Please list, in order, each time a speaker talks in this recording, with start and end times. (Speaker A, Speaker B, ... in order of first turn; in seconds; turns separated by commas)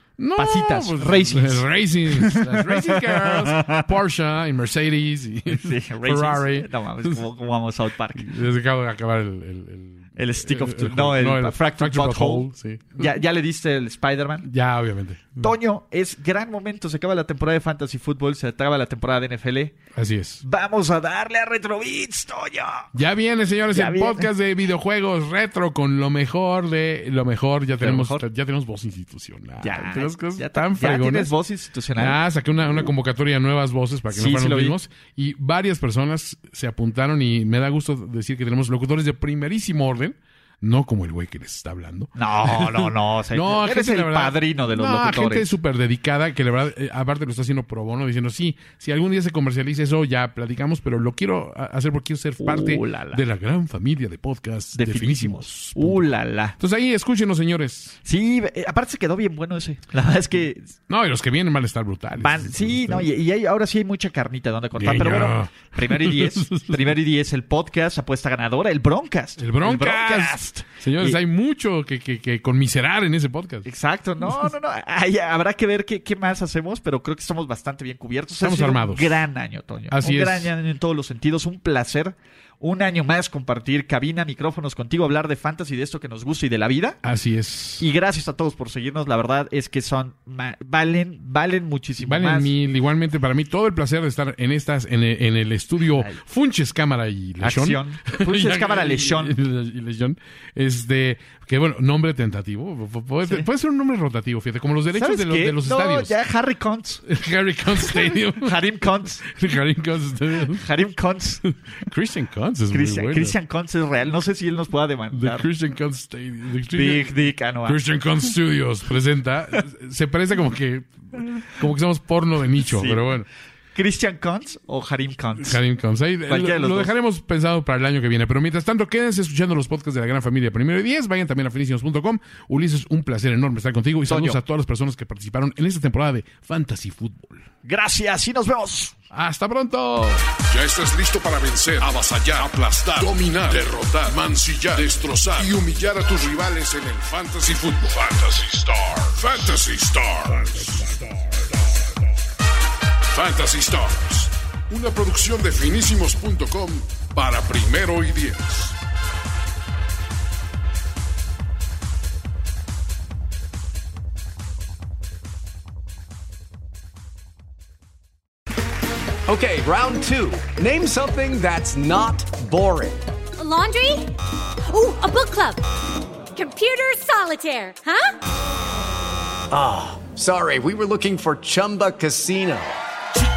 Speaker A: 0.2-7.2, Speaker B: 0.3-3.9, Speaker B: 5.5-8.3, Speaker A: 8.1-13.1, Speaker B: 10.2-14.5, Speaker A: 14.4-15.5, Speaker B: 15.4-19.8, Speaker A: 19.9-20.4, Speaker B: 20.4-22.9, Speaker A: 22.9-31.3, Speaker B: 23.7-24.3, Speaker B: 27.8-28.2, Speaker B: 29.6-32.2, Speaker A: 31.9-58.0, Speaker B: 34.1-34.8, Speaker B: 42.1-45.5, Speaker B: 52.4-53.2, Speaker B: 54.7-56.5, Speaker B: 58.0-60.7, Speaker A: 60.9-63.1, Speaker B: 62.2-71.2, Speaker A: 64.8-66.9, Speaker A: 69.4-73.7, Speaker B: 73.6-87.0, Speaker A: 78.4-79.2, Speaker A: 79.9-80.5, Speaker A: 87.0-87.8, Speaker B: 87.8-92.5, Speaker A: 92.0-106.2, Speaker B: 95.9-96.2, Speaker B: 97.4-99.3, Speaker B: 104.9-107.0, Speaker A: 107.0-110.7, Speaker B: 107.8-109.2, Speaker B: 110.3-111.4, Speaker A: 111.4-113.4, Speaker B: 112.7-115.5, Speaker A: 115.1-117.1, Speaker B: 116.7-117.8, Speaker A: 117.6-123.3, Speaker B: 122.6-123.1, Speaker B: 123.7-125.6, Speaker A: 125.4-137.4, Speaker B: 126.2-126.9, Speaker B: 134.1-134.4, Speaker B: 137.6-138.9, Speaker A: 139.1-151.3, Speaker C: 140.5-150.8, Speaker C: 153.1-158.7, Speaker A: 153.2-154.2, Speaker A: 154.7-156.4, Speaker A: 157.3-158.4, Speaker D: 169.2-173.0, Speaker E: 173.4-174.1, Speaker E: 174.7-175.7, Speaker E: 176.3-178.2, Speaker D: 179.5-182.8